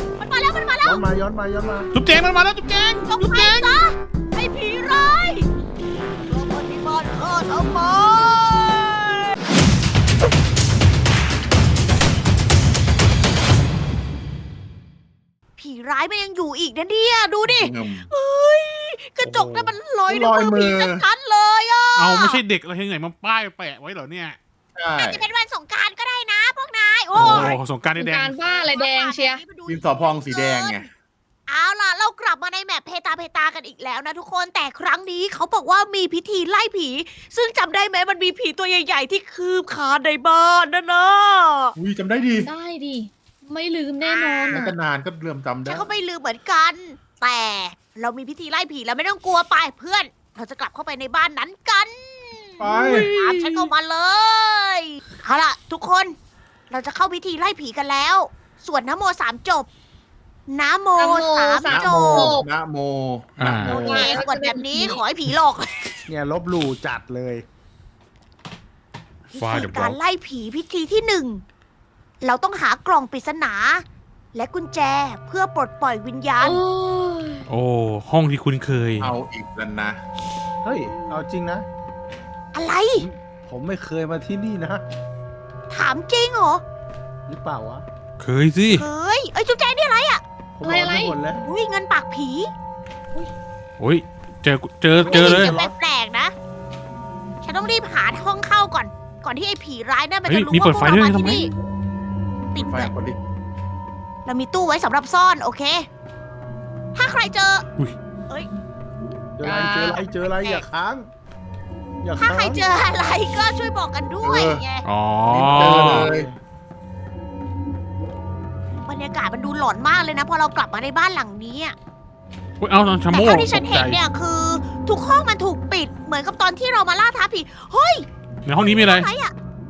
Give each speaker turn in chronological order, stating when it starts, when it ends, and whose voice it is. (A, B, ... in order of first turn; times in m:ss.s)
0:00.2-0:01.0 A
0:00.8-0:01.9 B
0:01.9-0:03.7 C
0:03.0-0:05.5 A
0:06.3-0:09.3 A
0:15.6-0:22.4 A
0:17.4-0:18.1 D
0:19.2-0:19.8 C
0:20.1-0:21.0 D
0:22.0-0:24.4 C
0:24.7-0:25.2 D
0:25.0-0:27.6 A
0:27.1-0:28.4 C
0:27.1-0:27.5 D
0:28.0-0:29.4 E
0:28.4-0:30.8 A
0:29.6-0:30.9 D
0:31.5-0:41.8 A
0:41.8-0:42.5 D
0:42.4-0:44.6 E
0:44.0-0:44.7 A
0:44.5-0:45.9 D
0:45.6-0:56.1 A
0:52.6-0:53.1 D
0:53.2-0:53.6 C
0:56.7-0:59.7 A
1:00.5-1:02.4 A
1:01.0-1:02.4 E
1:01.7-1:04.0 D
1:03.4-1:03.8 C
1:03.7-1:05.0 E
1:03.7-1:06.0 A
1:03.8-1:04.2 B
1:06.1-1:07.4 B
1:09.3-1:10.0 C
1:09.3-1:11.4 A
1:12.2-1:16.6 A
1:16.4-1:17.4 E
1:17.5-1:19.1 C
1:19.0-1:20.0 D
1:20.6-1:21.6 B
1:20.9-1:21.2 A
1:22.5-1:23.0 A
1:22.9-1:24.8 B
1:25.7-1:26.6 A
1:27.3-1:27.8 B
1:28.2-1:28.9 C
1:28.7-1:30.2 A
1:30.6-1:31.4 B
1:30.6-1:31.2 E
1:31.4-1:32.5 A
1:33.8-1:35.5 C
1:35.0-1:35.8 B
1:35.0-1:36.3 A
1:37.4-1:41.5 A
1:40.3-1:41.5 C
1:42.5-1:42.9 A
1:42.5-1:43.2 D
1:44.2-1:45.8 A
1:46.9-1:47.6 A
1:49.4-1:51.1 B
1:49.4-1:50.0 E
1:50.2-1:50.6 A
1:52.0-1:52.6 B
1:52.2-1:54.8 A
1:54.2-1:54.6 D
1:54.8-1:56.1 C
1:55.3-1:56.3 D
1:55.3-1:56.4 B
1:58.8-2:01.7 A
2:02.6-2:04.0 C
2:03.1-2:08.0 A
2:08.4-2:09.1 C
2:08.6-2:09.3 A